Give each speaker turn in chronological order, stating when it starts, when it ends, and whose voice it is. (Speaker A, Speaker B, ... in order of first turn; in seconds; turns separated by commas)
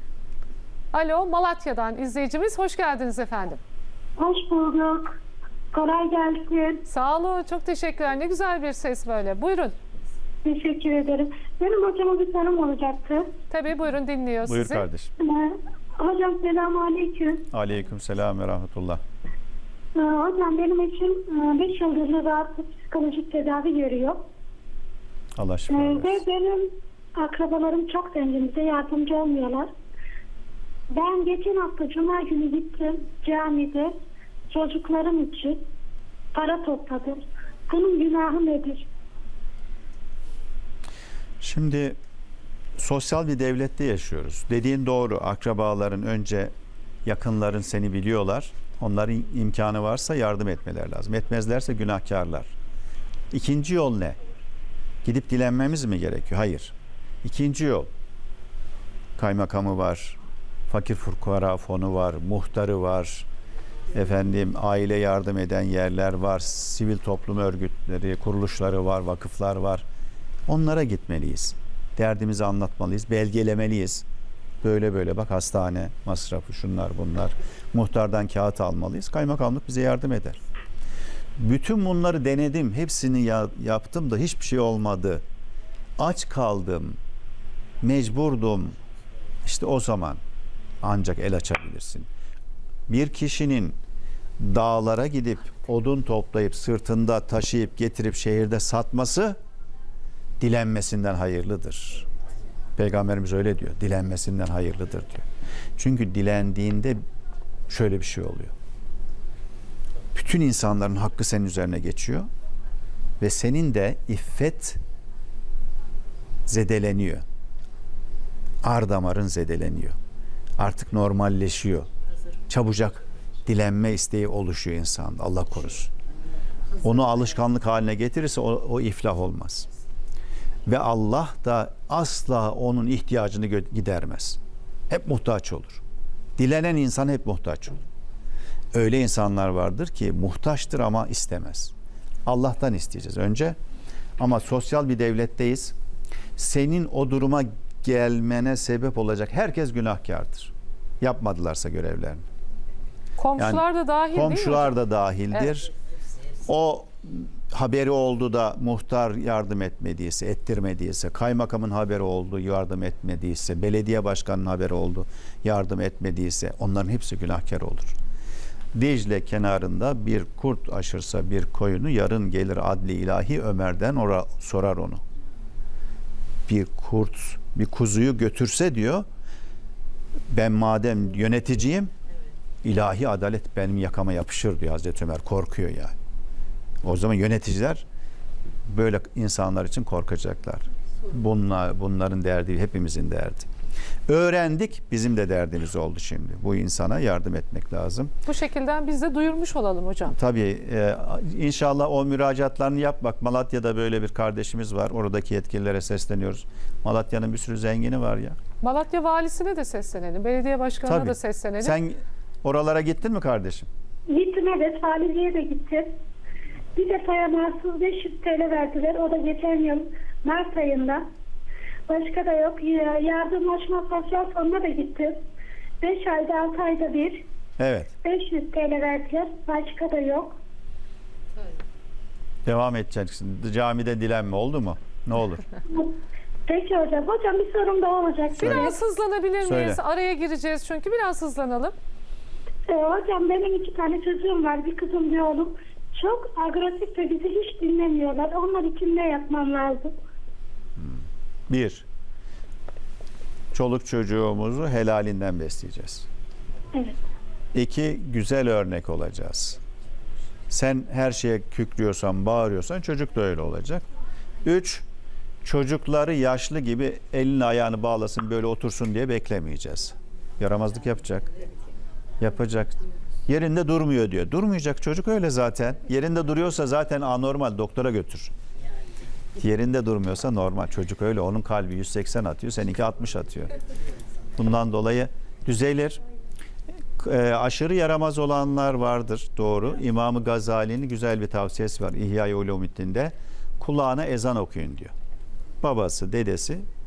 Speaker A: 0.9-3.6, Speaker B: 4.2-5.2, Speaker B: 5.7-6.8, Speaker A: 6.9-9.8, Speaker B: 10.4-13.3, Speaker A: 13.5-14.8, Speaker C: 14.5-15.1, Speaker B: 15.2-17.5, Speaker C: 17.5-19.0, Speaker B: 19.9-24.2, Speaker C: 25.4-26.2, Speaker B: 25.7-29.7, Speaker B: 30.9-33.9, Speaker B: 34.5-35.6, Speaker B: 36.3-38.9, Speaker C: 41.4-42.0, Speaker C: 42.8-46.5, Speaker C: 47.0-52.5, Speaker C: 53.3-54.2, Speaker C: 55.0-57.9, Speaker C: 59.2-60.2, Speaker C: 60.7-63.3, Speaker C: 63.9-69.8, Speaker C: 70.5-74.0, Speaker C: 74.6-80.4, Speaker C: 81.4-85.2, Speaker C: 86.0-87.0, Speaker C: 87.8-88.8, Speaker C: 89.5-90.2, Speaker C: 90.8-92.1, Speaker C: 92.9-93.8, Speaker C: 94.4-99.4, Speaker C: 100.4-102.1, Speaker C: 102.8-105.3, Speaker C: 105.8-107.0, Speaker C: 107.7-108.5, Speaker C: 110.1-112.3, Speaker C: 113.2-114.8, Speaker C: 116.5-117.2, Speaker C: 118.6-120.0, Speaker C: 120.6-121.9, Speaker C: 122.5-125.9, Speaker C: 126.8-129.7, Speaker C: 130.7-134.4, Speaker C: 134.9-135.8, Speaker C: 136.4-137.8, Speaker C: 138.7-141.7, Speaker C: 142.3-143.6, Speaker C: 144.2-145.8, Speaker C: 146.4-152.2, Speaker A: 153.2-154.8, Speaker C: 153.4-155.7, Speaker C: 156.5-167.9, Speaker C: 168.7-175.0, Speaker C: 176.5-179.1, Speaker C: 180.3-181.9, Speaker C: 182.6-185.9, Speaker C: 186.8-187.8, Speaker C: 188.7-193.5, Speaker C: 194.1-198.1, Speaker A: 198.3-200.2, Speaker C: 200.2-208.4, Speaker A: 208.6-211.8, Speaker C: 210.9-213.7, Speaker B: 214.1-215.9, Speaker B: 216.8-221.0, Speaker B: 221.9-225.2, Speaker B: 225.8-227.2, Speaker C: 227.6-227.9, Speaker B: 228.0-230.4, Speaker C: 232.4-235.4, Speaker B: 235.7-236.0, Speaker B: 236.5-238.8, Speaker A: 238.4-241.8, Speaker C: 239.4-239.8, Speaker B: 242.7-249.9, Speaker C: 250.8-251.8, Speaker C: 253.5-256.1, Speaker C: 257.5-259.6, Speaker C: 260.5-263.8, Speaker C: 264.4-264.9, Speaker C: 265.4-271.3, Speaker C: 272.2-278.3, Speaker C: 279.4-283.5, Speaker C: 284.4-286.0, Speaker C: 287.0-294.9, Speaker C: 295.6-296.6